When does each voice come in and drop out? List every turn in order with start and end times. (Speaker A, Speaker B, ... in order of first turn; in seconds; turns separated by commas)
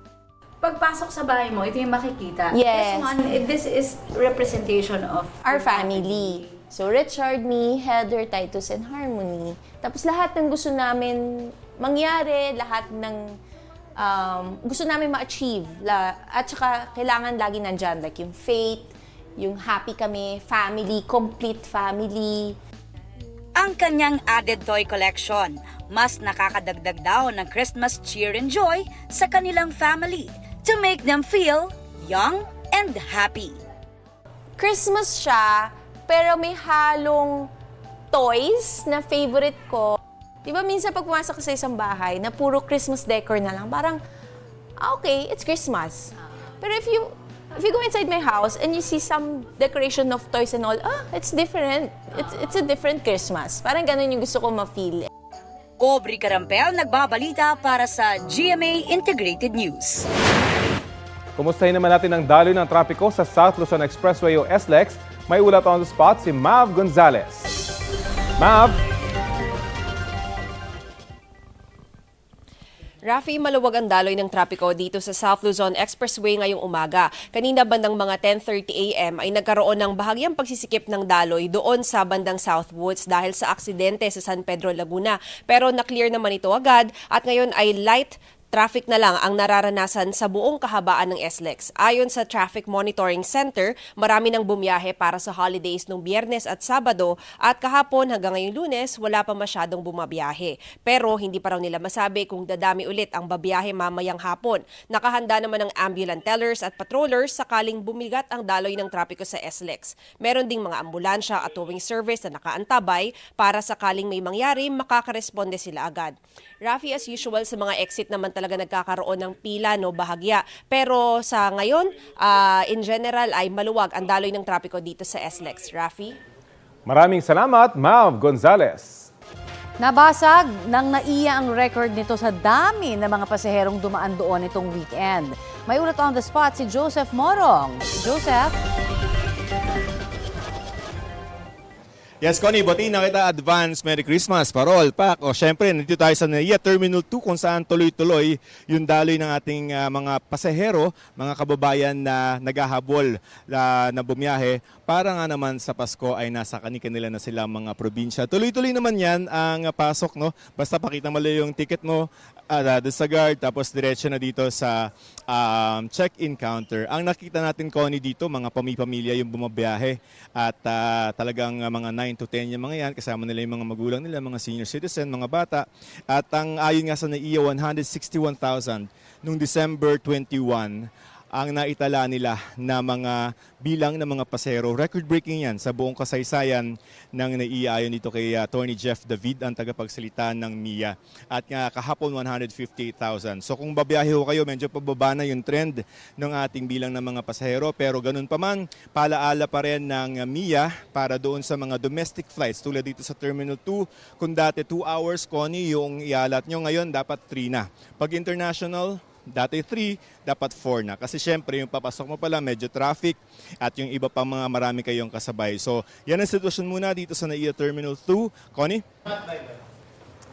Speaker A: 0.6-6.6, Speaker B: 2.5-3.2, Speaker B: 5.4-13.2, Speaker B: 14.0-18.9, Speaker B: 19.4-22.5, Speaker C: 23.6-33.6, Speaker B: 34.6-37.5, Speaker B: 38.1-44.0, Speaker B: 44.8-46.0, Speaker B: 46.6-55.0, Speaker C: 55.8-60.1, Speaker D: 61.4-67.5, Speaker D: 68.4-68.8, Speaker E: 73.1-116.1, Speaker E: 116.6-126.1, Speaker D: 126.8-129.1, Speaker F: 129.8-138.5, Speaker G: 142.2-218.8